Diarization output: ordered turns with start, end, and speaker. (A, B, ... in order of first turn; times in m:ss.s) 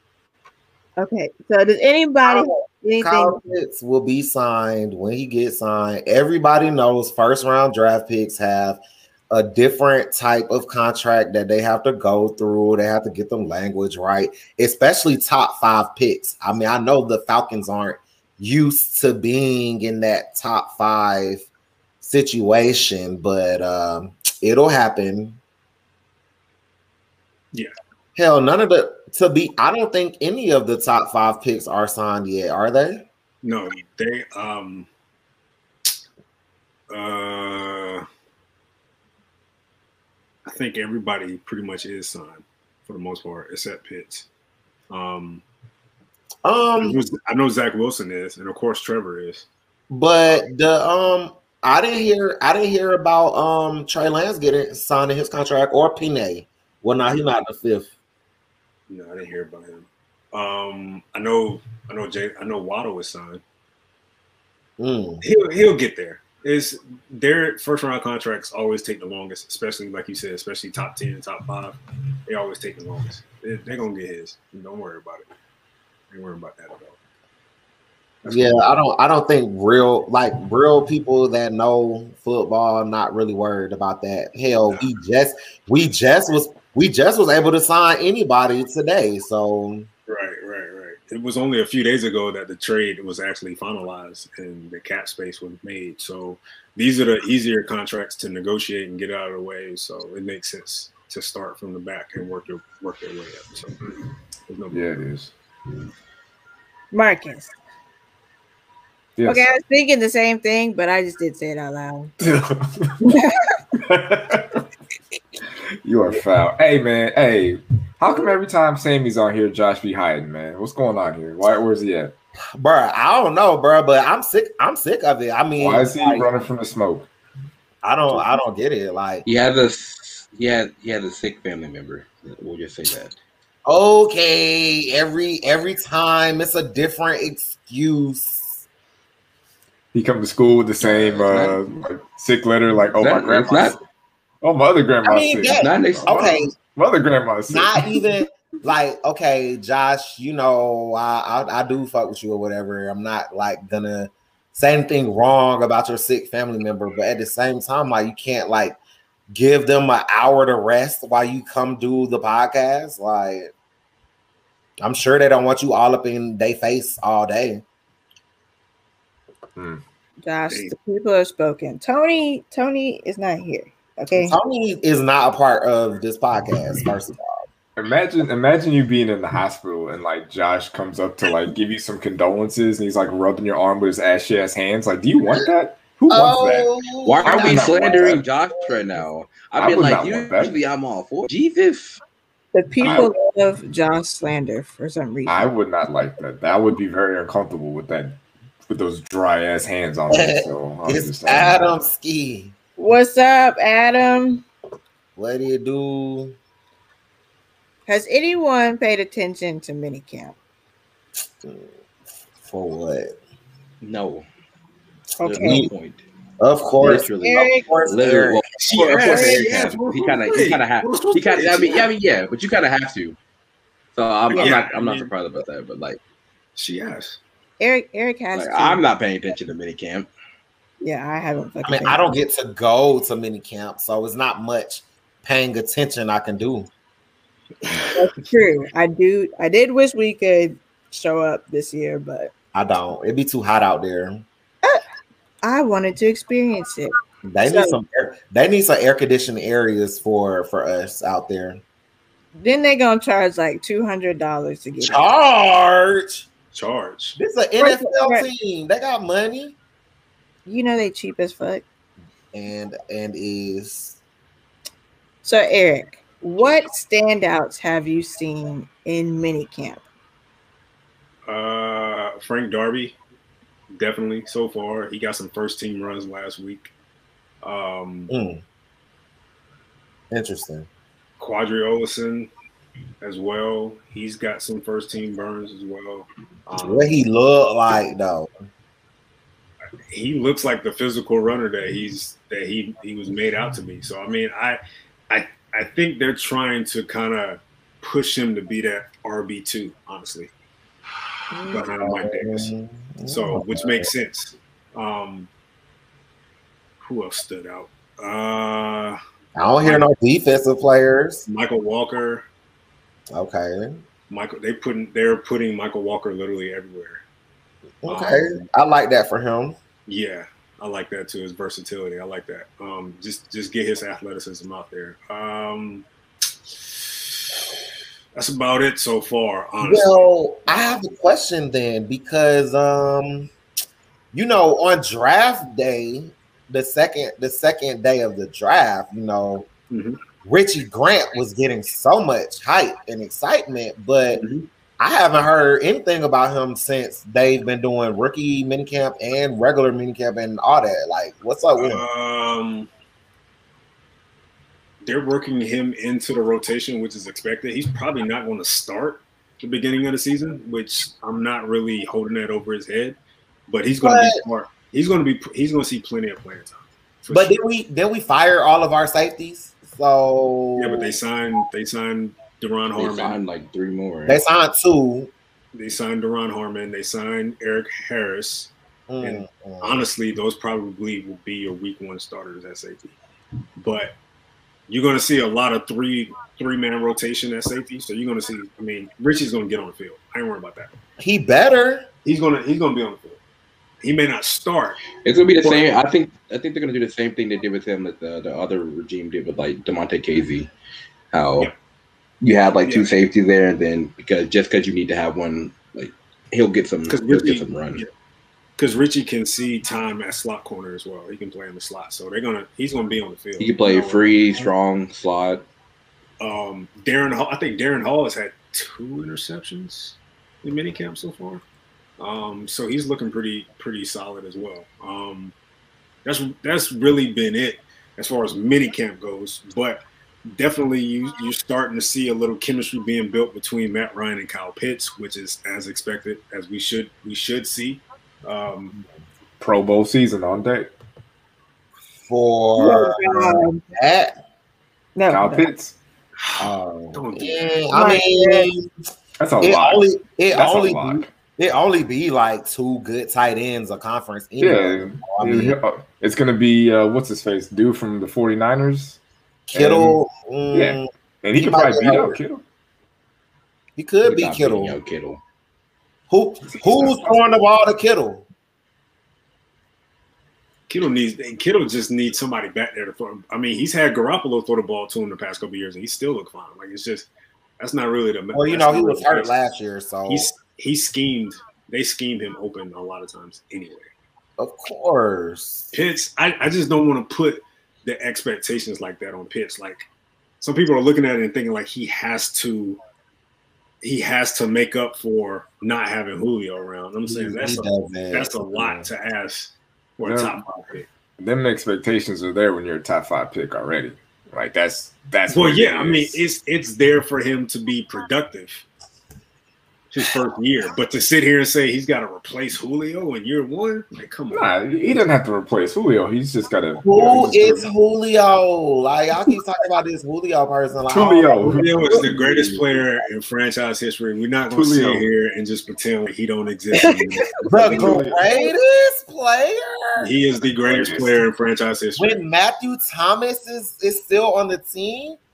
0:01.0-0:03.4 A
0:02.2-0:21.4 B
0:22.0-0:25.4 B
0:28.2-0:33.1 B
0:33.4-0:34.9 C
0:36.9-0:38.0 C
0:40.5-0:44.3 C
0:44.9-0:45.4 C
0:46.4-0:47.0 B
0:46.8-0:49.5 C
0:49.9-0:57.9 B
0:58.9-1:03.4 C
1:04.8-1:05.2 B
1:05.2-1:15.3 C
1:16.1-1:17.0 C
1:18.2-1:18.7 C
1:18.2-1:29.9 B
1:30.1-1:43.8 C
1:44.5-1:45.0 C
1:44.7-1:45.3 D
1:46.9-1:47.5 A
1:49.2-1:49.5 D
1:49.2-1:52.1 A
1:52.2-1:53.0 D
1:53.0-1:53.4 A
1:53.8-1:54.6 D
1:55.8-2:02.1 D
2:02.6-2:06.2 B
2:05.6-2:07.1 D
2:07.8-2:09.3 B
2:09.2-2:13.2 E
2:13.7-2:18.6 B
2:19.9-2:23.8 D
2:20.8-2:21.6 E
2:23.0-2:23.8 E
2:24.4-2:27.9 D
2:25.0-2:26.5 B
2:25.6-2:26.2 E
2:27.5-2:38.8 B
2:39.3-2:43.5 B
2:44.8-2:47.6 B
2:49.6-2:49.8 D
2:50.2-2:54.4 A
2:50.5-2:50.8 C
2:54.1-2:57.5 B
2:57.8-3:06.7 D
3:06.1-3:08.8 B
3:07.0-3:12.0 E
3:07.2-3:08.2 D
3:09.6-3:10.6 D
3:12.5-3:15.5 A
3:12.8-3:13.1 D
3:15.3-3:21.7 D
3:20.1-3:22.6 B
3:22.8-3:24.4 A
3:25.2-3:26.4 B
3:27.9-3:30.4 A
3:31.4-3:31.7 B
3:32.4-3:33.2 B
3:33.8-3:34.3 E
3:35.2-3:35.7 A
3:35.2-3:36.0 E
3:35.4-3:35.7 B
3:36.4-3:38.4 B
3:36.8-3:43.2 E
3:36.8-3:37.7 A
3:38.6-3:41.9 C
3:39.0-3:39.5 A
3:44.0-3:46.0 E
3:44.3-3:44.6 A
3:44.3-3:45.1 C
3:46.6-3:47.2 C
3:47.6-3:48.9 A
3:48.3-3:50.1 E
3:50.8-3:52.0 A
3:51.6-3:56.7 B
3:57.9-4:02.3 A
4:02.5-4:04.2 B
4:05.4-4:06.9 A
4:07.2-4:11.6 B
4:07.4-4:07.8 A
4:12.4-4:15.1 A
4:14.8-4:16.3 B
4:16.5-4:17.2 C
4:17.2-4:19.6 B
4:17.6-4:18.3 A
4:20.5-4:21.6 A
4:22.3-4:24.0 B
4:25.2-4:29.8 A
4:31.3-4:33.0 C
4:33.7-4:36.7 C
4:37.4-4:38.1 C
4:38.1-4:38.4 B
4:40.1-4:40.7 B
4:41.2-4:42.3 C
4:43.0-4:47.0 C
4:46.6-4:48.3 B
4:49.9-5:00.3 C
5:01.3-5:01.6 A
5:01.5-5:02.5 C
5:01.6-5:03.9 B
5:03.1-5:05.3 C
5:06.8-5:09.0 C
5:09.4-5:11.3 B
5:11.3-5:12.3 C
5:13.1-5:13.8 B
5:14.1-5:17.0 C
5:17.8-5:19.6 B
5:17.9-5:18.4 C
5:19.9-5:25.9 C
5:26.6-5:27.0 C
5:28.2-5:30.0 C
5:29.6-5:33.3 B
5:34.1-5:39.5 B
5:39.7-5:40.0 C
5:40.2-5:44.2 B
5:44.2-5:44.5 C
5:44.8-5:51.8 B
5:51.6-5:52.7 C
5:54.8-6:03.0 C
6:03.5-6:07.4 C
6:03.8-6:04.2 B
6:07.1-6:11.0 B
6:10.6-6:13.2 C
6:12.8-6:14.2 E
6:14.1-6:15.1 B
6:15.5-6:23.0 C
6:18.9-6:19.8 B
6:23.6-6:23.9 C
6:24.7-6:30.7 C
6:31.0-6:31.9 B
6:32.0-6:33.2 C
6:33.8-6:35.7 C
6:35.0-6:40.5 E
6:41.1-6:41.5 E
6:42.2-6:47.8 E
6:42.6-6:42.9 C
6:46.9-6:47.9 C
6:48.6-6:54.4 C
6:53.4-6:55.4 E
6:56.2-7:01.4 C
7:02.0-7:05.4 C
7:06.0-7:18.8 C
7:19.4-7:20.7 D
7:22.1-7:24.2 B
7:22.6-7:23.6 A
7:25.0-7:25.5 A
7:25.1-7:25.8 D
7:26.2-7:27.6 C
7:26.4-7:28.7 B
7:27.7-7:28.5 A
7:29.2-7:31.1 D
7:29.4-7:35.6 B
7:34.4-7:39.0 D
7:39.5-7:42.2 B
7:39.5-7:40.0 D
7:40.5-7:42.4 D
7:43.8-7:44.8 B
7:44.0-7:45.2 E
7:46.1-7:48.3 B
7:46.5-7:47.2 D
7:50.7-7:57.1 C
7:57.6-7:59.4 C
7:58.3-8:00.3 B
8:00.1-8:03.9 C
8:04.4-8:05.7 B
8:05.7-8:09.8 C
8:10.4-8:12.8 C
8:13.8-8:20.9 C
8:17.1-8:18.9 B
8:20.0-8:20.4 D
8:21.2-8:26.2 D
8:25.3-8:28.6 C
8:29.9-8:34.5 C
8:34.3-8:37.7 D
8:36.8-8:42.8 B
8:40.9-8:42.1 D
8:41.5-8:48.0 C
8:44.5-8:45.1 D
8:46.7-8:47.2 A
8:47.5-8:48.2 D
8:47.5-8:50.1 B
8:50.0-8:52.2 C
8:50.7-8:51.2 D
8:52.0-8:55.2 B